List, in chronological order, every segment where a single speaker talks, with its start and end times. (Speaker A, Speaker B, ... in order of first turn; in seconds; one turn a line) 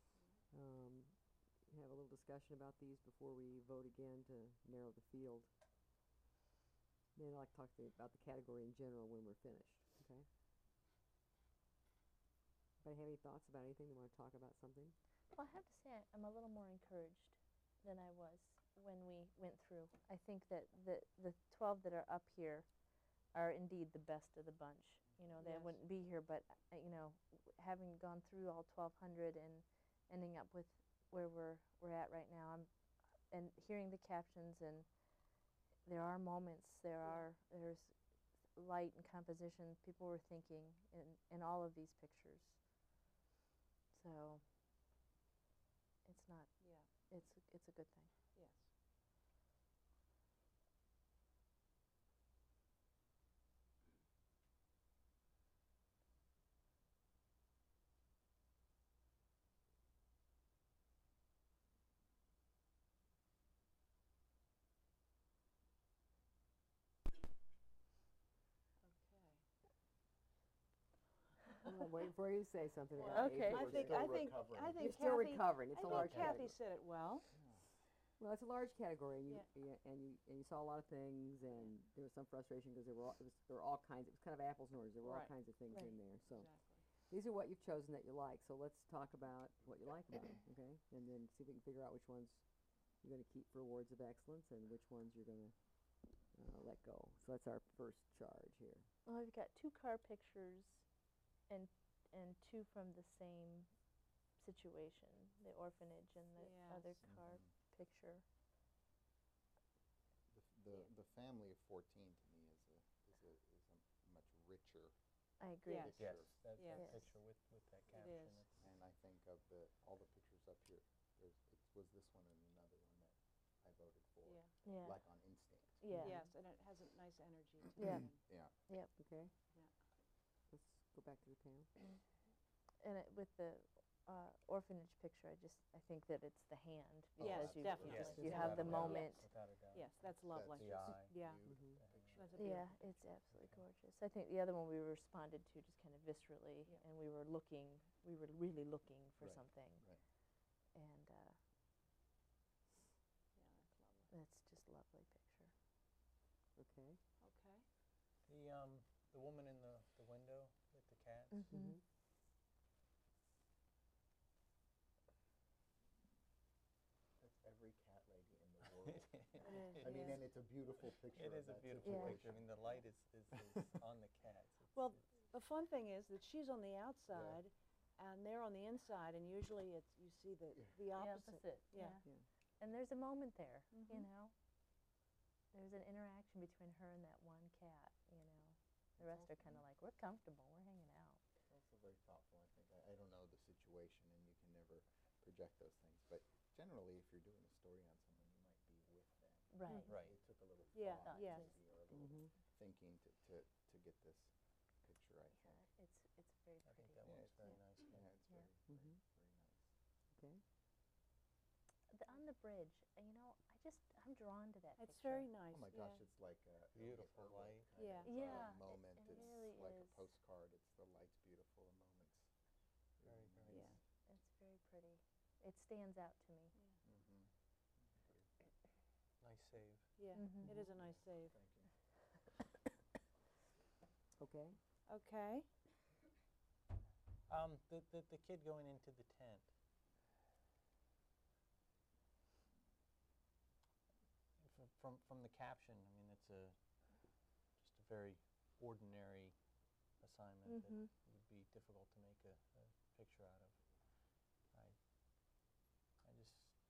Speaker A: 0.5-5.5
Speaker A: 7.2-10.3
Speaker A: 12.8-14.9
Speaker B: 15.3-22.7
Speaker B: 23.3-32.7
Speaker C: 25.4-25.8
Speaker B: 33.3-34.9
Speaker B: 35.8-37.9
Speaker C: 37.0-37.3
Speaker B: 38.5-42.6
Speaker B: 43.9-44.4
Speaker B: 46.0-46.5
Speaker C: 46.6-46.9
Speaker B: 47.1-48.1
Speaker C: 48.3-48.7
Speaker C: 68.8-69.4
Speaker A: 71.7-74.1
Speaker C: 72.9-77.3
Speaker B: 73.1-73.6
Speaker D: 73.4-75.0
Speaker A: 74.8-76.5
Speaker D: 75.9-76.4
Speaker D: 77.3-77.8
Speaker A: 78.2-86.5
Speaker C: 85.0-86.8
Speaker A: 87.0-92.4
Speaker A: 93.0-95.5
Speaker A: 96.3-98.9
Speaker B: 99.0-100.8
Speaker B: 101.5-103.7
Speaker B: 104.4-108.2
Speaker C: 106.4-107.0
Speaker D: 107.0-107.5
Speaker D: 110.3-114.9
Speaker B: 115.4-116.2
Speaker C: 115.7-116.0
Speaker D: 115.8-116.4
Speaker E: 116.0-118.7
Speaker C: 116.5-116.9
Speaker B: 116.7-117.2
Speaker C: 117.9-118.5
Speaker D: 118.6-125.8
Speaker C: 124.2-124.5
Speaker B: 124.6-125.0
Speaker B: 125.8-126.2
Speaker C: 126.0-128.2
Speaker D: 127.7-128.5
Speaker B: 127.8-128.1
Speaker B: 128.7-129.0
Speaker A: 129.0-129.3
Speaker A: 130.5-131.7
Speaker B: 132.8-139.3
Speaker D: 137.2-139.0
Speaker C: 137.2-139.2
Speaker E: 137.8-142.3
Speaker C: 139.7-141.4
Speaker D: 140.2-142.6
Speaker A: 141.4-141.8
Speaker C: 142.2-142.9
Speaker B: 142.3-149.9
Speaker E: 143.3-143.6
Speaker D: 149.2-150.0
Speaker B: 150.7-151.4
Speaker C: 153.4-154.1
Speaker B: 154.1-155.5
Speaker A: 156.6-157.0
Speaker C: 157.2-157.7
Speaker E: 158.3-161.5
Speaker B: 161.3-161.8
Speaker A: 161.5-161.8
Speaker D: 167.2-172.8
Speaker E: 168.6-175.1
Speaker C: 169.4-170.2
Speaker B: 171.8-172.2
Speaker C: 174.7-182.0
Speaker D: 177.1-177.4
Speaker B: 180.9-184.3
Speaker C: 183.7-184.1
Speaker B: 185.5-191.2
Speaker D: 189.0-189.7
Speaker D: 191.5-204.3
Speaker B: 199.5-200.0
Speaker E: 199.9-200.2
Speaker C: 200.7-201.5
Speaker B: 201.0-201.6
Speaker A: 201.9-202.3
Speaker D: 204.8-205.7
Speaker B: 205.3-207.6
Speaker E: 206.6-208.1
Speaker D: 207.0-209.7
Speaker A: 208.7-209.0
Speaker A: 210.2-210.4
Speaker B: 211.9-215.3
Speaker C: 214.8-216.0
Speaker D: 215.5-222.3
Speaker E: 216.7-217.7
Speaker C: 217.8-218.2
Speaker B: 218.1-220.1
Speaker D: 223.0-223.8
Speaker E: 223.0-223.8
Speaker C: 223.5-223.8
Speaker B: 224.1-226.5
Speaker D: 226.8-228.3
Speaker E: 229.2-230.0
Speaker C: 230.0-231.3
Speaker B: 230.2-230.6
Speaker D: 230.6-231.7
Speaker A: 234.2-234.6
Speaker C: 234.9-235.5
Speaker E: 237.3-239.5
Speaker E: 244.4-246.6
Speaker E: 247.6-249.3
Speaker E: 250.0-253.5
Speaker B: 250.5-250.9
Speaker E: 256.0-256.5